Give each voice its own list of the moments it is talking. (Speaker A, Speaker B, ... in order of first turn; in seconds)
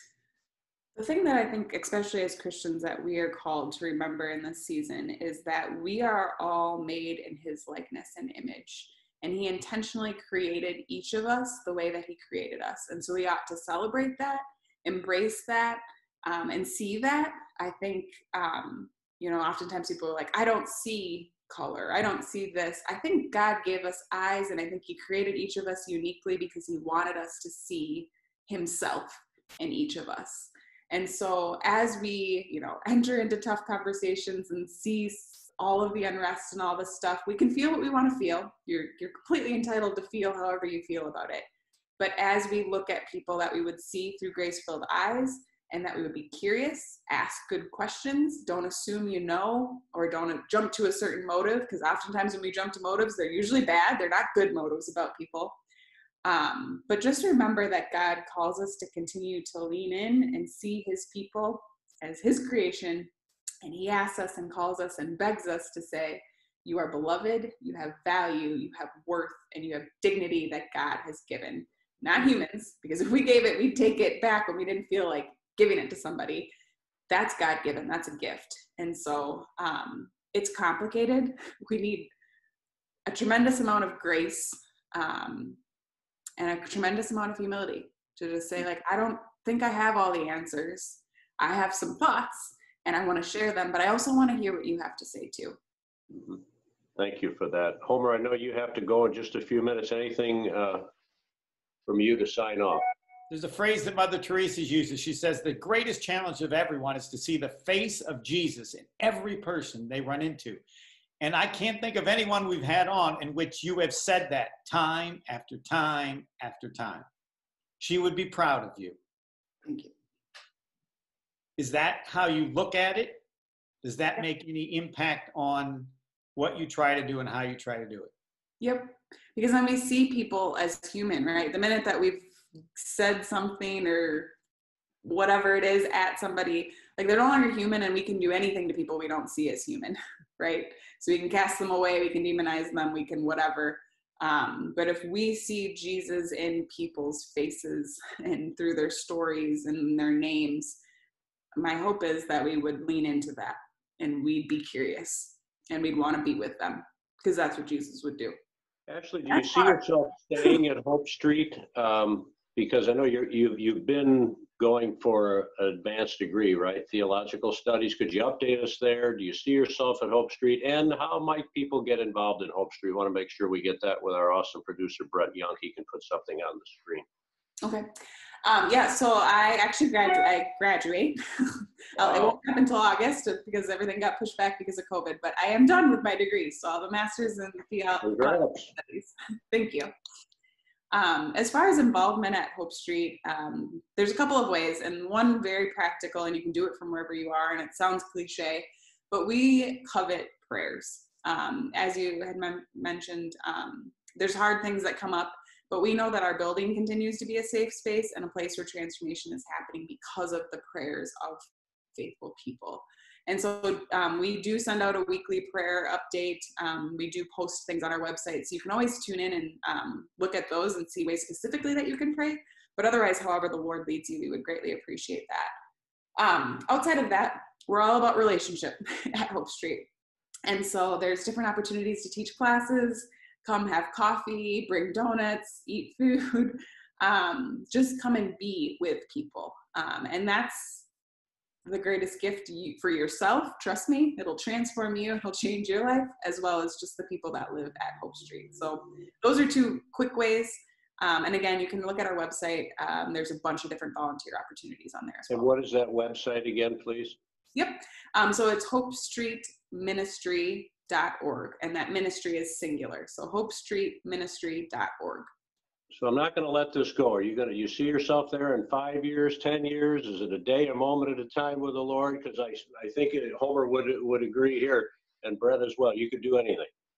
Speaker A: 0.9-41.4, 42.0-55.5, 56.2-63.1, 63.6-76.5, 77.1-82.1, 83.1-85.6, 86.4-95.6, 119.6-119.9, 128.6-134.3, 135.0-150.8, 151.6-158.3, 159.3-159.8, 177.6-177.9, 178.4-189.9, 190.9-211.4, 212.0-225.5, 226.2-229.9, 230.5-240.9, 241.7-255.5, 257.5-265.3
Speaker B: 96.1-96.4, 97.0-100.9, 101.9-102.8, 158.9-177.1, 182.0-182.3, 188.0-188.7, 255.3-257.2, 265.9-276.7
Speaker C: 103.3-110.6, 111.2-117.0, 117.8-119.0, 121.6-123.2, 123.8-128.1